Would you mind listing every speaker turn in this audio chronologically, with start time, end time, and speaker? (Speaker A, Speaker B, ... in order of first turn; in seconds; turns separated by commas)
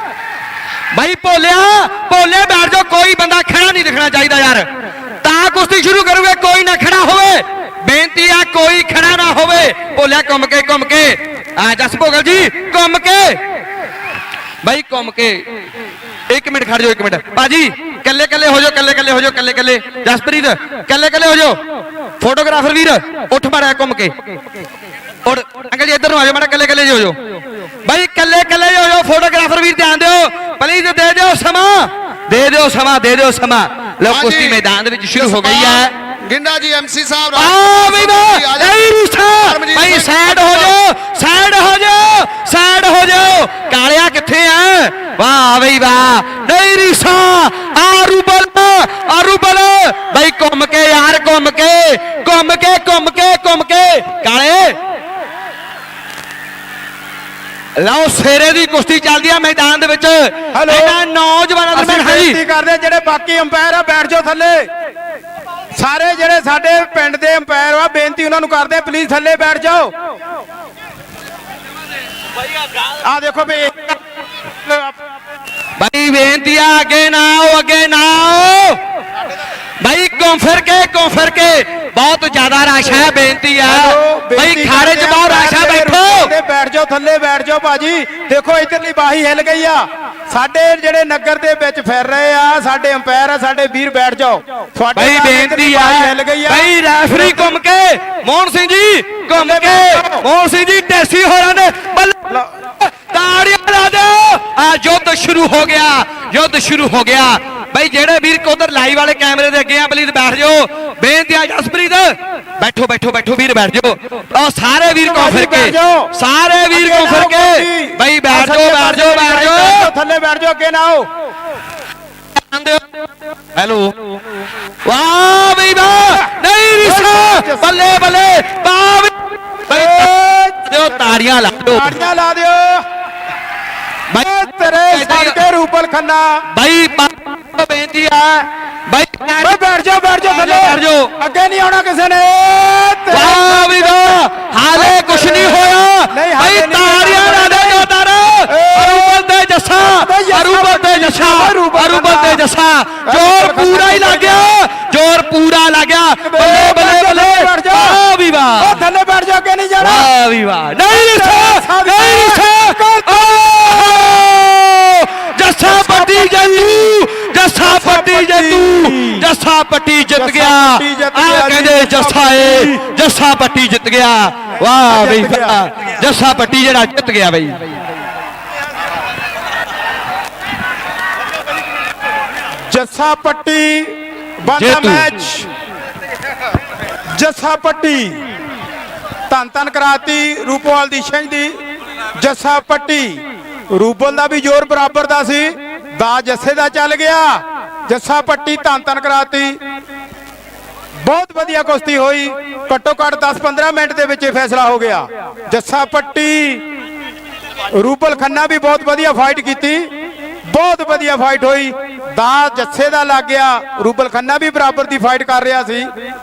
Speaker A: 0.9-4.7, Speaker A: 5.2-13.4, Speaker A: 14.6-15.5, Speaker A: 16.3-21.6, Speaker A: 22.2-24.1, Speaker A: 25.2-27.2, Speaker A: 27.9-35.9, Speaker B: 34.1-34.6, Speaker B: 35.1-40.8, Speaker A: 37.3-54.8, Speaker A: 57.8-62.4, Speaker C: 60.5-61.0, Speaker C: 61.7-64.7, Speaker C: 65.8-69.9, Speaker C: 72.8-74.0, Speaker C: 74.6-75.0, Speaker A: 75.8-78.8, Speaker A: 79.8-86.3, Speaker C: 83.7-97.5, Speaker A: 95.0-119.9, Speaker C: 99.3-100.2, Speaker C: 115.0-116.1, Speaker C: 116.7-121.1, Speaker A: 122.3-122.8, Speaker A: 123.5-124.0, Speaker A: 124.8-131.9, Speaker C: 126.8-127.8, Speaker C: 129.7-132.8, Speaker C: 134.2-136.4, Speaker A: 134.9-135.4, Speaker A: 136.6-139.6, Speaker C: 139.4-144.2, Speaker A: 140.2-141.1, Speaker A: 143.1-158.8, Speaker C: 144.7-147.9, Speaker C: 148.5-149.2, Speaker C: 149.8-152.4, Speaker C: 153.1-154.6, Speaker C: 156.2-158.0, Speaker C: 158.6-160.1, Speaker A: 159.8-177.6, Speaker C: 160.9-164.2, Speaker C: 165.6-166.9, Speaker C: 167.5-169.3, Speaker C: 170.2-172.9, Speaker C: 174.8-175.6, Speaker C: 182.7-185.5, Speaker A: 184.5-185.1, Speaker C: 187.2-188.2, Speaker C: 189.3-191.6, Speaker C: 192.2-199.6, Speaker C: 201.0-206.6, Speaker C: 207.7-209.9, Speaker C: 210.5-215.9